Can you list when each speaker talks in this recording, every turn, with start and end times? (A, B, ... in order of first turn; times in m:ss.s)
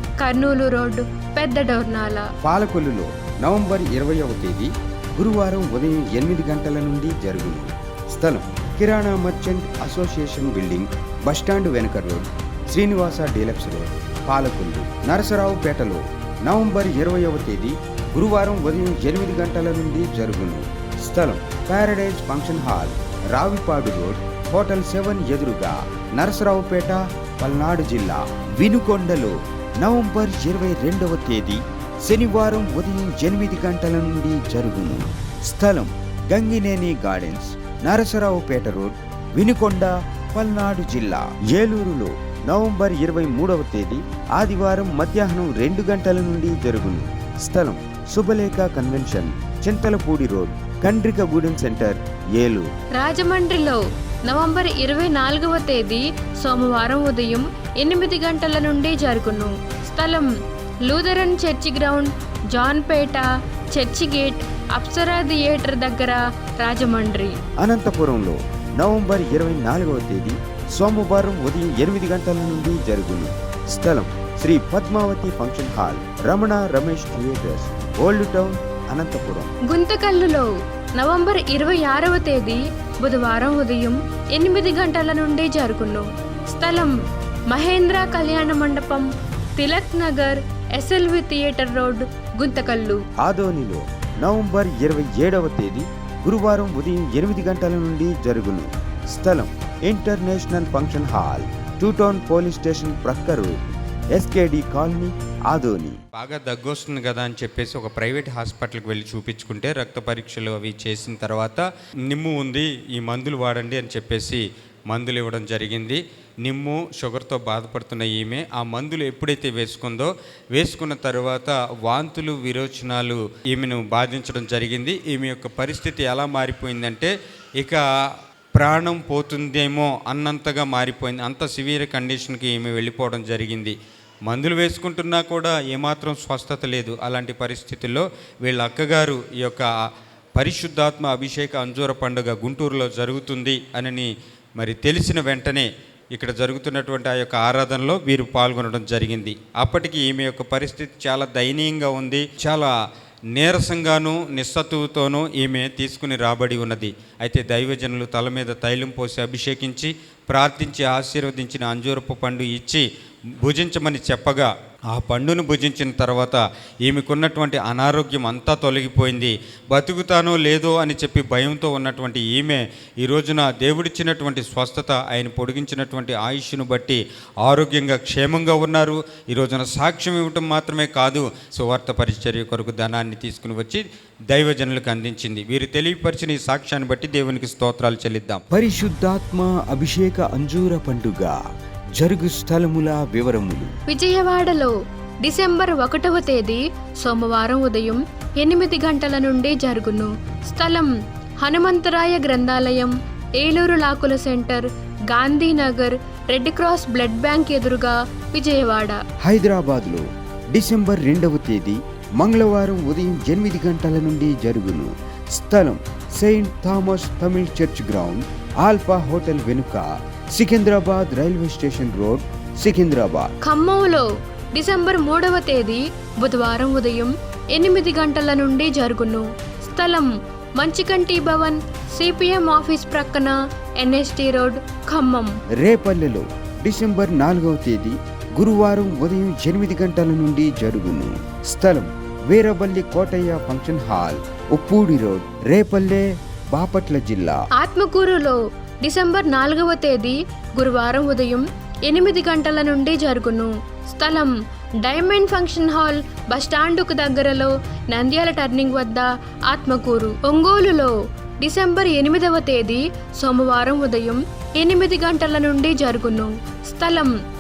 0:00.2-0:02.3 A
0:02.4-0:52.6 B
0:53.0-1:00.3 A
1:00.8-1:07.3 A
1:07.6-1:19.5 B
1:19.7-1:26.9 A
1:27.5-1:33.0 A
1:33.2-1:43.5 B
1:44.1-1:45.9 B
1:46.2-2:07.8 C
2:08.6-2:13.7 C
2:14.2-2:19.6 C
2:20.3-2:32.7 C
2:33.3-2:42.8 C
2:43.4-3:08.4 C
3:08.5-3:11.3 B
3:12.0-3:13.7 B
3:13.9-3:29.0 A
3:29.2-3:30.0 B
3:30.5-3:43.3 B
3:43.4-3:55.3 A
3:55.6-4:07.4 B
4:07.6-4:27.1 A